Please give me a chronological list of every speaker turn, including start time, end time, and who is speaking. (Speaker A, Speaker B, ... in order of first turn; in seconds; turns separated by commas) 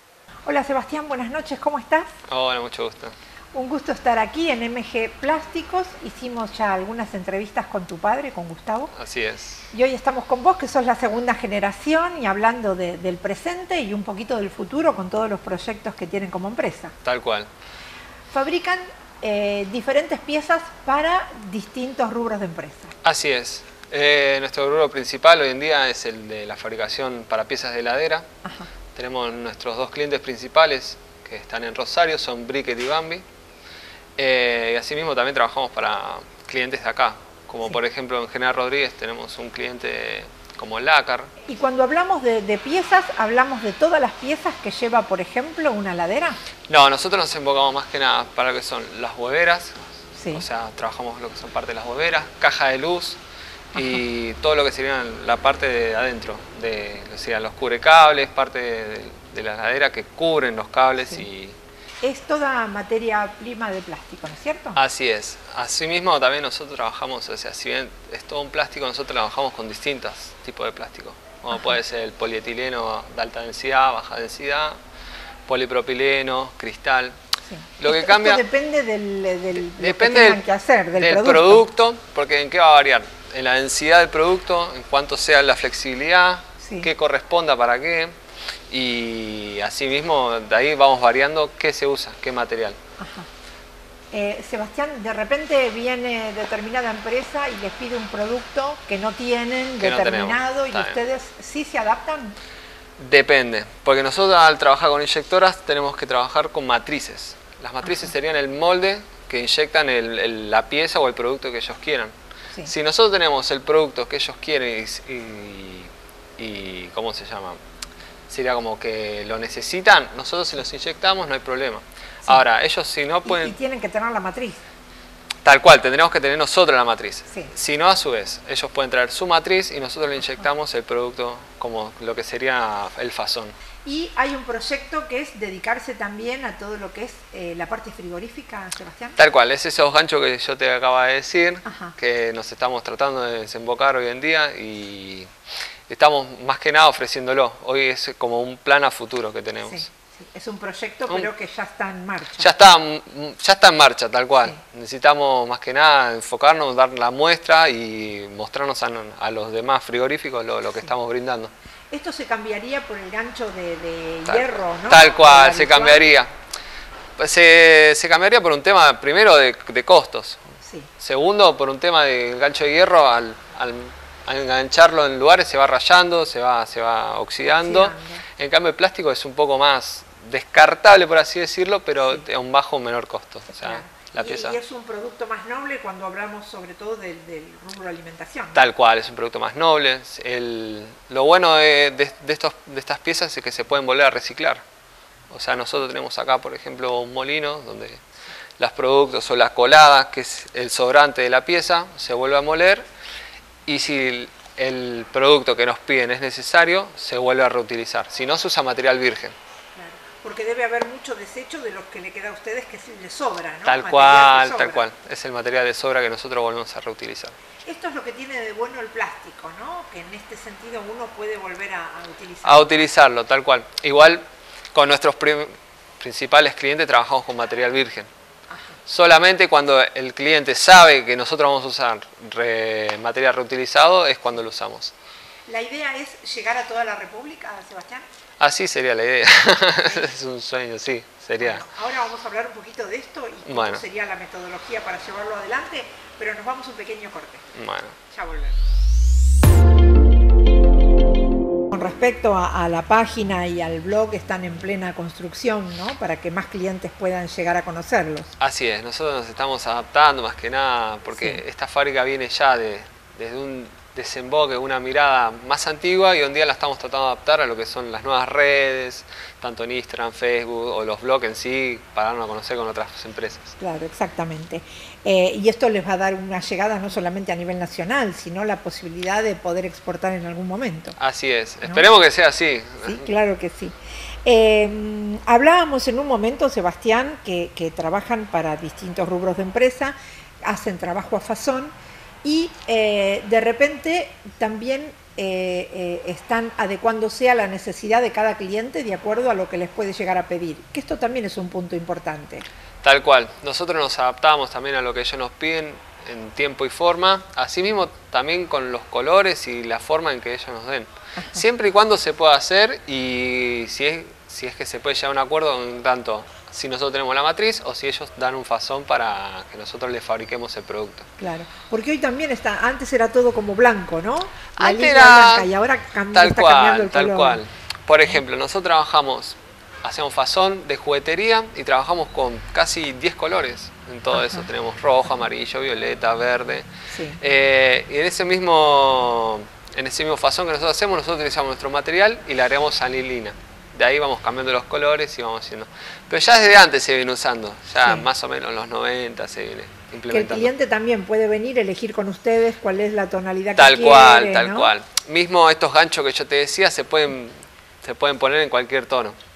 Speaker A: 0.5-2.1, Speaker B: 2.3-3.1, Speaker A: 3.5-8.9, Speaker B: 8.9-9.6, Speaker A: 9.7-16.9, Speaker B: 17.0-17.5, Speaker A: 18.3-22.9, Speaker B: 23.0-28.3, Speaker A: 28.4-28.7, Speaker B: 28.9-33.2, Speaker B: 34.2-41.3, Speaker A: 41.5-46.4, Speaker B: 46.7-49.8, Speaker A: 50.1-50.5, Speaker B: 50.3-53.2, Speaker B: 53.7-61.5, Speaker A: 53.7-54.0, Speaker A: 62.0-64.8, Speaker B: 64.8-74.8, Speaker A: 71.5-71.8, Speaker B: 75.5-77.2, Speaker A: 77.5-81.6, Speaker B: 77.8-78.4, Speaker B: 79.6-88.1, Speaker A: 86.6-86.9, Speaker B: 88.7-92.8, Speaker A: 93.0-93.3, Speaker A: 94.1-102.3, Speaker B: 99.8-101.0, Speaker B: 103.0-112.1, Speaker A: 107.8-108.1, Speaker B: 112.7-117.6, Speaker B: 118.3-123.5, Speaker A: 123.2-124.6, Speaker B: 125.5-133.5, Speaker A: 133.8-139.2, Speaker B: 139.2-145.3, Speaker A: 141.7-141.9, Speaker B: 145.9-149.9, Speaker A: 149.7-152.5, Speaker B: 152.4-161.5, Speaker A: 161.9-166.0, Speaker B: 164.3-166.3, Speaker B: 167.2-170.4, Speaker A: 170.6-170.9, Speaker B: 171.0-184.6, Speaker A: 177.4-178.2, Speaker A: 183.6-188.6, Speaker B: 188.6-194.6, Speaker B: 195.3-198.0, Speaker B: 198.6-202.8, Speaker B: 203.7-209.3, Speaker A: 209.8-214.9, Speaker B: 213.7-217.3, Speaker A: 217.7-222.7, Speaker B: 222.4-228.1, Speaker A: 228.5-228.8, Speaker B: 228.9-234.9, Speaker A: 235.5-238.0, Speaker B: 238.4-241.7, Speaker A: 241.4-247.5, Speaker B: 243.5-243.8, Speaker B: 247.5-248.0, Speaker A: 248.1-248.6, Speaker A: 251.7-258.3, Speaker B: 258.4-273.5, Speaker A: 261.1-261.4, Speaker A: 273.6-280.9, Speaker B: 281.0-283.1, Speaker A: 282.8-283.7, Speaker A: 284.2-291.7, Speaker A: 292.2-302.4, Speaker B: 302.8-321.1, Speaker A: 311.2-311.4, Speaker A: 321.2-327.4, Speaker B: 324.6-325.5, Speaker B: 326.1-336.6, Speaker A: 334.1-334.5, Speaker A: 336.9-337.2, Speaker B: 337.2-350.5, Speaker A: 347.8-348.1, Speaker A: 350.1-354.7, Speaker B: 353.6-359.1